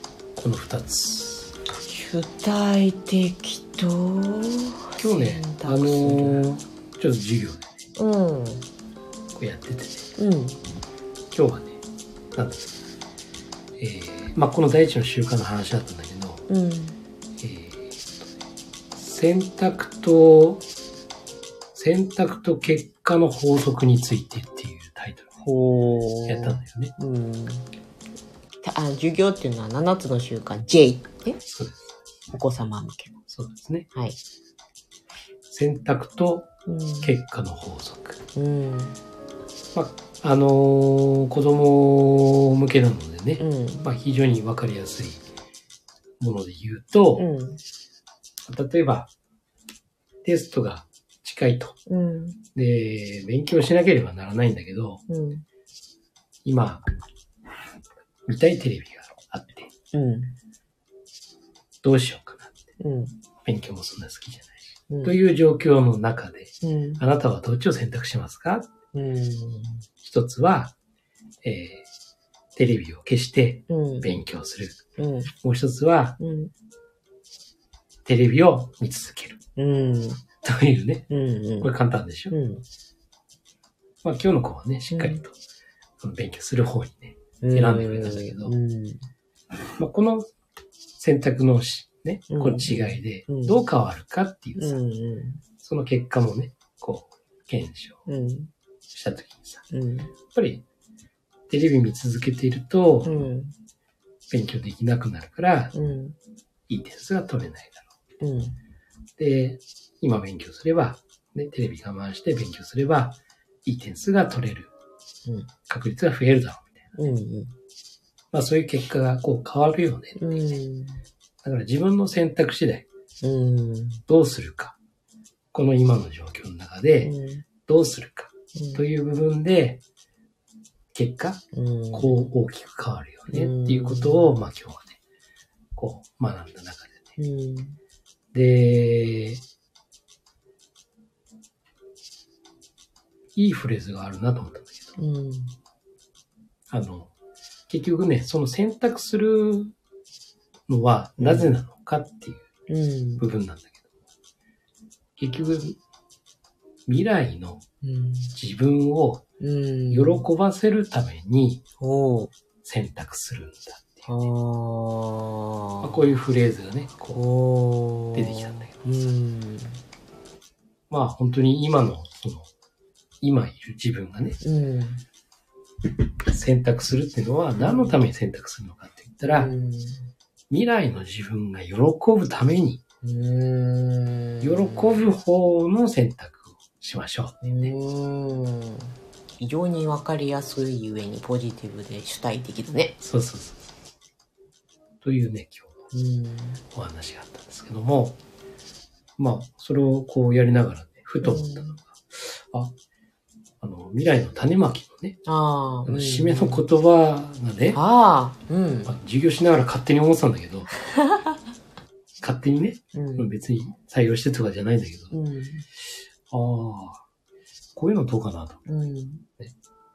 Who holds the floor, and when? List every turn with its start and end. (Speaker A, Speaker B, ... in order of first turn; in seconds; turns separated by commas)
Speaker A: 0.3-1.5, Speaker B: 1.7-6.4, Speaker A: 5.0-7.7, Speaker B: 8.0-8.7, Speaker A: 9.3-10.1, Speaker B: 10.2-10.6, Speaker A: 11.3-11.8, Speaker A: 12.3-12.7, Speaker A: 13.8-16.4, Speaker B: 16.5-17.0, Speaker A: 17.4-18.3, Speaker A: 18.9-20.6, Speaker A: 21.7-25.3, Speaker B: 25.4-27.7, Speaker A: 26.3-26.9, Speaker B: 28.6-31.4, Speaker A: 31.4-32.0, Speaker B: 32.3-33.2, Speaker A: 33.3-33.9, Speaker B: 33.9-34.2, Speaker A: 35.5-36.5, Speaker B: 36.7-37.1, Speaker A: 37.0-38.2, Speaker B: 38.4-39.0, Speaker A: 39.7-45.2, Speaker B: 43.4-43.9, Speaker A: 46.2-47.3, Speaker B: 47.1-47.6, Speaker A: 48.4-49.1, Speaker A: 50.2-51.8, Speaker B: 51.9-52.4, Speaker A: 52.5-55.0, Speaker B: 55.1-55.4, Speaker A: 56.4-56.8, Speaker A: 58.2-59.7, Speaker B: 59.9-60.4, Speaker A: 61.8-62.6, Speaker B: 62.8-63.2, Speaker A: 63.4-68.7, Speaker B: 64.9-65.2, Speaker B: 66.6-67.0, Speaker B: 68.9-69.8, Speaker A: 70.0-70.7, Speaker A: 71.4-71.9, Speaker A: 72.5-76.2, Speaker B: 73.7-74.1, Speaker B: 75.0-75.3, Speaker B: 76.2-76.5, Speaker A: 78.0-79.4, Speaker B: 79.5-80.2, Speaker A: 80.4-81.1, Speaker B: 81.1-81.7, Speaker A: 81.6-82.3, Speaker B: 82.3-82.6, Speaker A: 84.0-85.3, Speaker B: 84.9-85.2, Speaker A: 86.0-88.5, Speaker B: 87.4-89.0, Speaker A: 89.8-90.3, Speaker A: 91.0-94.8, Speaker B: 92.3-93.6, Speaker B: 94.6-95.4, Speaker A: 95.6-98.0, Speaker B: 98.1-98.5, Speaker A: 98.9-99.7, Speaker B: 99.7-100.1, Speaker A: 100.3-100.6, Speaker A: 101.5-103.2, Speaker B: 103.0-103.5, Speaker A: 104.3-105.7, Speaker B: 105.7-106.2, Speaker A: 106.7-107.8, Speaker B: 108.2-108.6, Speaker A: 109.2-114.7, Speaker B: 115.2-115.5, Speaker A: 115.7-116.9, Speaker B: 117.0-117.5, Speaker A: 118.3-120.5, Speaker B: 120.2-121.0, Speaker A: 121.4-122.8, Speaker B: 123.2-124.0, Speaker A: 124.1-124.8, Speaker A: 125.5-127.1, Speaker B: 127.0-127.5, Speaker A: 127.7-129.8, Speaker B: 128.5-128.8, Speaker A: 130.9-135.0, Speaker B: 131.5-132.3, Speaker B: 133.3-134.4, Speaker A: 135.7-137.1, Speaker B: 137.2-137.8, Speaker A: 138.3-139.4, Speaker A: 143.3-145.0, Speaker B: 145.0-145.6, Speaker A: 146.7-147.1, Speaker A: 147.7-149.7, Speaker A: 150.7-152.4, Speaker B: 151.2-151.5, Speaker B: 152.7-153.2, Speaker A: 153.2-153.8, Speaker A: 155.2-155.8, Speaker A: 156.9-157.6, Speaker B: 157.8-158.3, Speaker A: 158.3-159.2, Speaker B: 159.4-160.2, Speaker A: 159.9-161.6, Speaker B: 161.8-162.3, Speaker A: 162.6-164.1, Speaker B: 164.1-166.0, Speaker A: 165.8-167.2, Speaker B: 167.1-169.8, Speaker A: 168.1-169.0, Speaker A: 170.9-172.5, Speaker A: 173.2-174.4, Speaker B: 174.4-175.0, Speaker A: 176.2-179.5, Speaker B: 177.5-178.0, Speaker B: 179.2-180.1, Speaker A: 180.5-182.8, Speaker B: 183.0-185.1, Speaker A: 184.4-187.7, Speaker B: 187.4-193.0, Speaker A: 193.0-193.7, Speaker A: 195.0-195.8, Speaker B: 195.9-196.6, Speaker A: 196.7-198.2, Speaker A: 199.2-202.7, Speaker B: 201.2-201.8, Speaker A: 203.6-205.2, Speaker B: 205.2-206.6, Speaker A: 205.8-207.8, Speaker B: 207.7-208.9, Speaker A: 208.8-210.7, Speaker B: 210.9-211.3, Speaker A: 212.2-215.1, Speaker B: 212.9-213.3, Speaker B: 215.1-215.7, Speaker A: 216.3-217.0, Speaker A: 217.7-218.6, Speaker B: 218.7-219.2